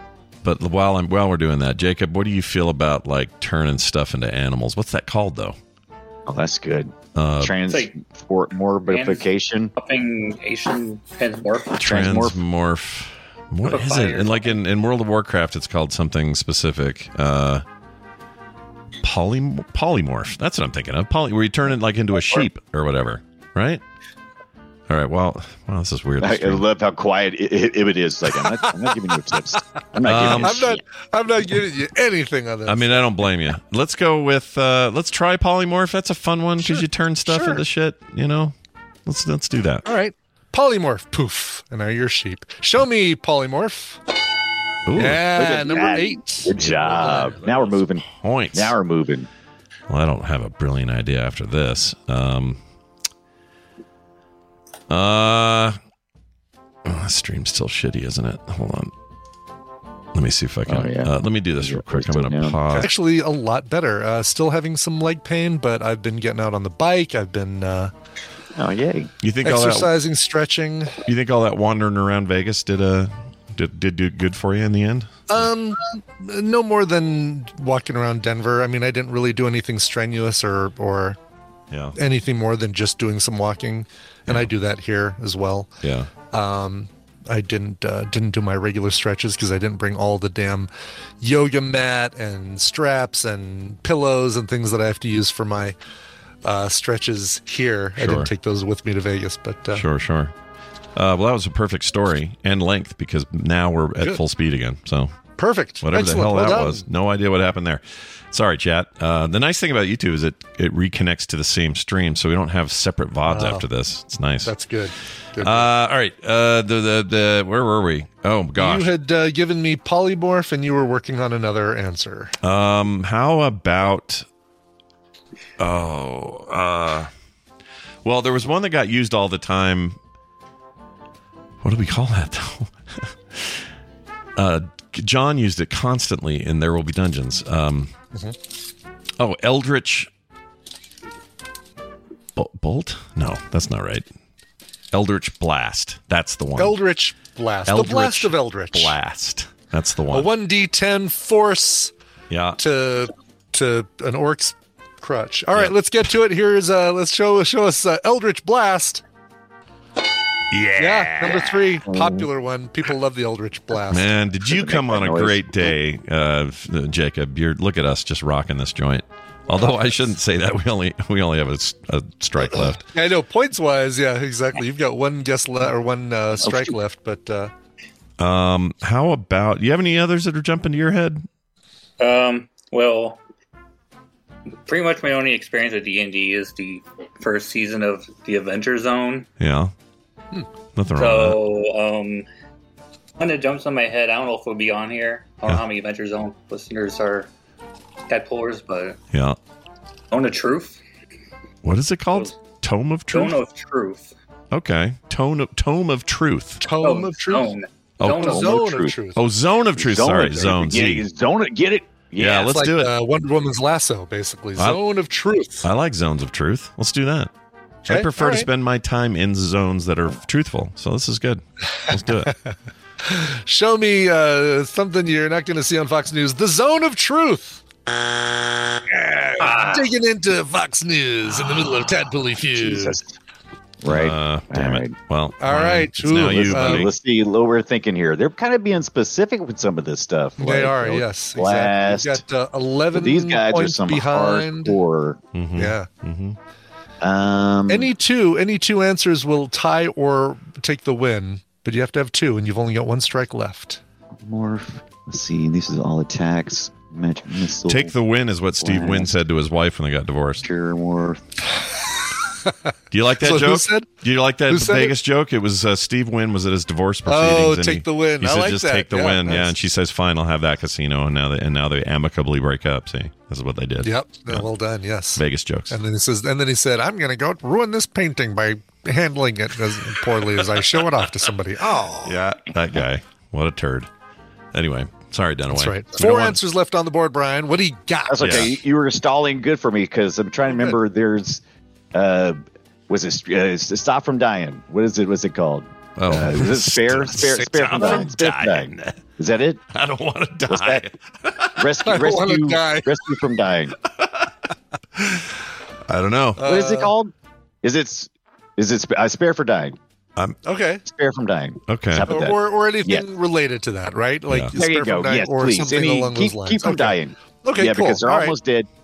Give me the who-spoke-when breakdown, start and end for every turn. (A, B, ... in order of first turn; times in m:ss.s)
0:00.4-0:05.6 A
0:06.3-0:09.7 B
0:07.1-0:07.5 A
0:08.9-0:11.8 C
0:11.8-0:17.6 A
0:11.8-0:12.4 B
0:13.6-0:14.5 C
0:19.0-0:23.8 A
0:24.9-0:26.6 A
0:26.2-0:30.8 B
0:30.0-0:30.6 A
0:30.1-0:32.9 D
0:32.7-0:38.5 A
0:36.6-0:37.6 D
0:39.0-0:39.8 A
0:39.8-0:44.0 D
0:44.8-0:45.2 A
0:45.0-0:47.3 D
0:45.4-0:49.3 B
0:46.5-0:48.8 A
0:49.9-0:52.6 A
0:54.9-0:55.8 A
0:56.8-0:58.9 A
1:00.1-1:02.9 A
1:00.6-1:02.6 B
1:02.7-1:07.9 D
1:08.5-1:09.1 B
1:09.2-1:09.9 A
1:09.4-1:11.0 D
1:11.0-1:15.5 A
1:15.3-1:21.2 D
1:21.7-1:22.0 A
1:22.0-1:25.7 D
1:25.8-1:26.1 A
1:26.3-1:30.7 D
1:31.2-1:35.8 D
1:36.4-1:39.8 D
1:38.0-1:38.3 A
1:39.7-1:40.3 A
1:40.9-1:45.2 A
1:45.4-1:46.8 D
1:45.8-1:54.5 A
1:53.3-1:53.6 D
1:54.4-1:55.7 D
1:55.4-1:58.9 A
1:58.6-2:02.3 D
2:02.4-2:04.2 A
2:05.6-2:07.1 A
2:08.0-2:10.0 A
2:11.6-2:13.7 A
2:14.4-2:17.9 A
2:19.2-2:20.1 A
2:22.4-2:24.1 A
2:24.9-2:26.8 A
2:26.6-2:28.9 D
2:27.7-2:30.3 A
2:30.1-2:31.9 D
2:32.3-2:32.6 A
2:32.6-2:39.0 D
2:40.5-2:41.5 A
2:40.8-2:44.1 D
2:41.8-2:42.3 B
2:43.9-2:52.8 A
2:44.4-2:45.7 B
2:49.6-2:49.8 D
2:52.5-2:57.5 D
2:56.4-2:56.8 B
2:58.2-3:01.3 A
3:02.0-3:03.2 C
3:04.6-3:09.3 C
3:09.4-3:09.7 A
3:10.8-3:11.4 A
3:10.9-3:12.2 C
3:13.2-3:17.3 C
3:18.1-3:19.0 C
3:19.1-3:19.4 A
3:20.1-3:20.8 C
3:21.6-3:23.4 A
3:23.1-3:24.1 C
3:24.5-3:26.6 A
3:26.6-3:27.5 D
3:26.8-3:28.5 C
3:28.0-3:28.4 A
3:28.1-3:28.9 B
3:28.2-3:29.2 D
3:29.1-3:31.1 A
3:29.8-3:32.6 B
3:32.2-3:32.9 A
3:32.4-3:35.6 D
3:35.6-3:37.3 A
3:37.9-3:38.5 D
3:37.9-3:42.3 A
3:41.8-3:47.6 D
3:48.9-3:49.7 B
3:49.4-3:53.0 D
3:51.3-3:53.1 B
3:53.8-3:54.9 B
3:53.8-3:56.9 A
3:55.4-3:56.9 D
3:56.2-4:02.2 B
4:00.4-4:04.8 D
4:02.9-4:05.2 B
4:05.3-4:06.4 A
4:05.6-4:05.9 D
4:07.0-4:07.9 B
4:07.7-4:13.8 D
4:14.1-4:17.9 B
4:17.6-4:20.4 A
4:18.6-4:19.1 B
4:20.4-4:21.2 B
4:21.5-4:23.9 D
4:22.9-4:34.5 A
4:24.5-4:24.9 D
4:27.0-4:29.5 D
4:33.8-4:42.2 D
4:35.1-4:35.8 A
4:42.0-4:43.9 A
4:44.5-4:46.4 A
4:45.5-4:48.5 D
4:48.1-4:51.4 B
4:48.2-4:48.5 A
4:50.5-4:50.8 D
4:51.9-4:59.6 B
4:56.0-4:59.0 A
4:57.1-4:58.2 D
4:59.7-5:01.7 A
5:00.5-5:00.8 B
5:01.6-5:03.7 B
5:01.8-5:03.2 D
5:03.8-5:04.3 A
5:05.0-5:05.3 A
5:05.8-5:06.4 A
5:06.4-5:06.9 D
5:06.4-5:07.1 B
5:07.6-5:09.8 B
5:10.4-5:10.8 D
5:10.8-5:13.0 B
5:11.7-5:12.1 A
5:12.1-5:18.4 D
5:14.3-5:14.5 A
5:14.5-5:18.7 B